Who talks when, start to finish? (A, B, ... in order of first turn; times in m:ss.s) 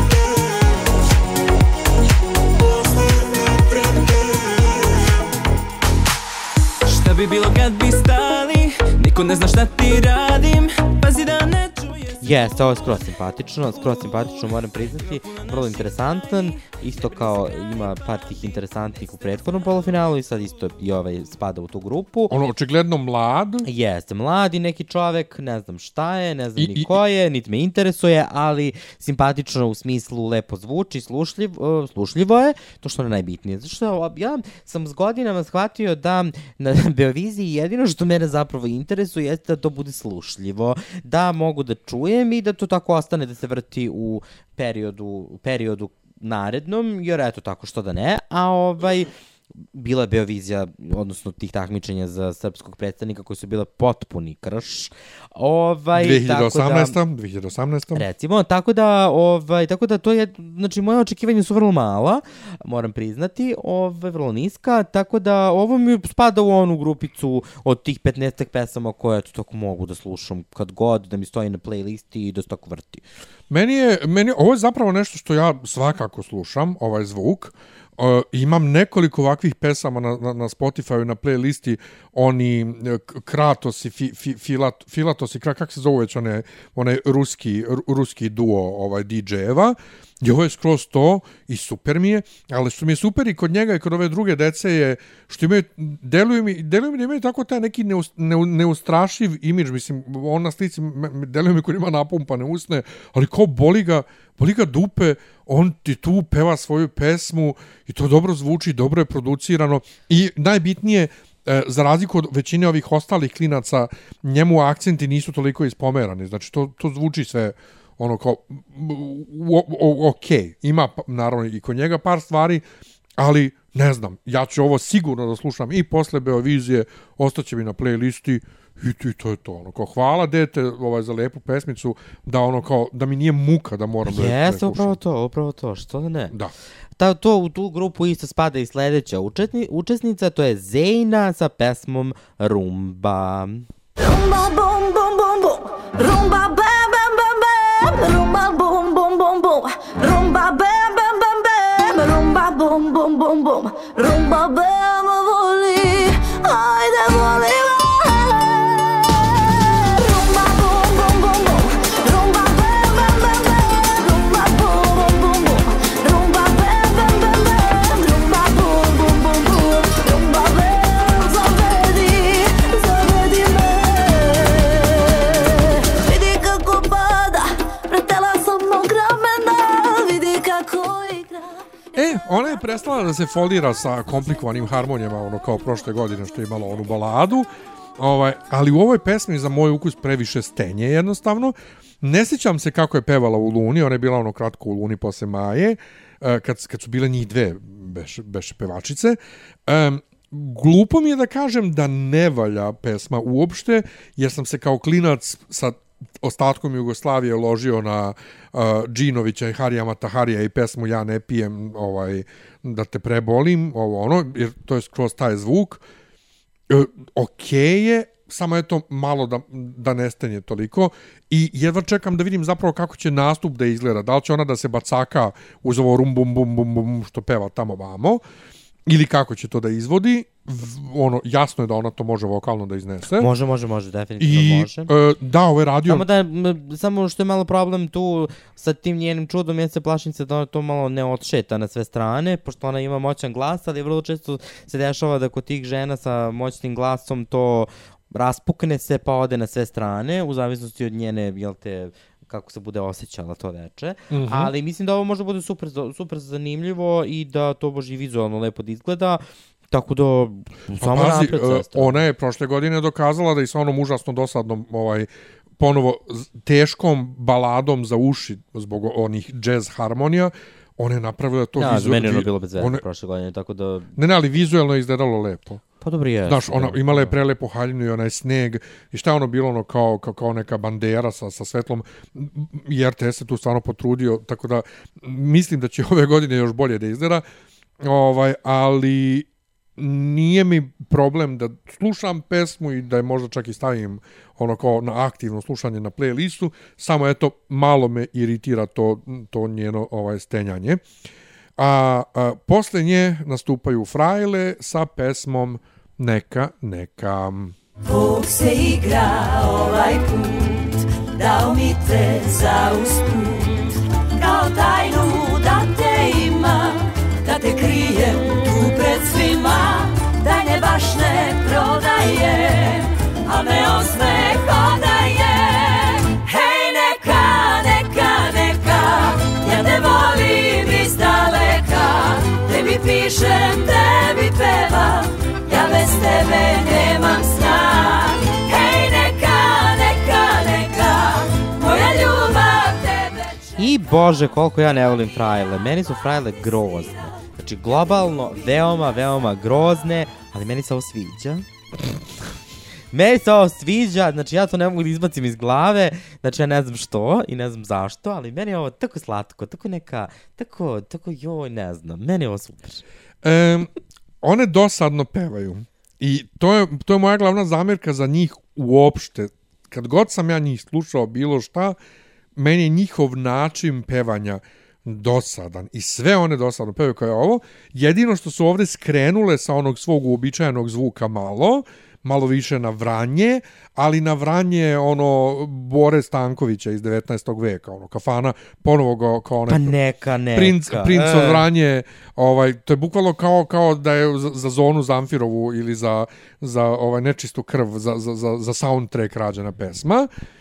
0:06.9-0:12.1 A
0:12.2-0:22.3 B
0:22.3-0:23.7 C
0:23.6-0:49.1 B
0:26.6-0:27.0 C
0:49.7-0:57.0 B
0:56.0-0:58.1 C
0:58.0-1:13.0 B
1:13.5-2:02.6 C
2:03.2-2:15.0 C
2:14.1-2:16.3 B
2:17.0-2:23.7 B
2:24.0-3:01.5 D
3:01.9-3:07.5 C
3:08.0-3:35.8 C
3:36.7-3:48.2 C
3:48.9-3:53.3 C
3:53.2-3:54.9 B
3:54.2-3:56.0 C
3:55.9-4:22.0 B
4:14.1-4:14.5 C
4:20.8-4:32.8 C
4:31.6-4:33.9 B
4:34.0-4:35.6 C
4:35.8-4:37.2 B
4:36.3-4:47.2 C
4:47.8-5:00.8 C
5:01.6-5:07.6 C
5:07.9-5:43.4 D
5:43.6-5:51.4 B
5:52.9-6:02.8 B
6:03.2-6:03.7 C
6:04.2-6:11.8 C
6:12.4-6:29.8 C
6:29.5-6:31.5 B
6:30.3-6:40.1 C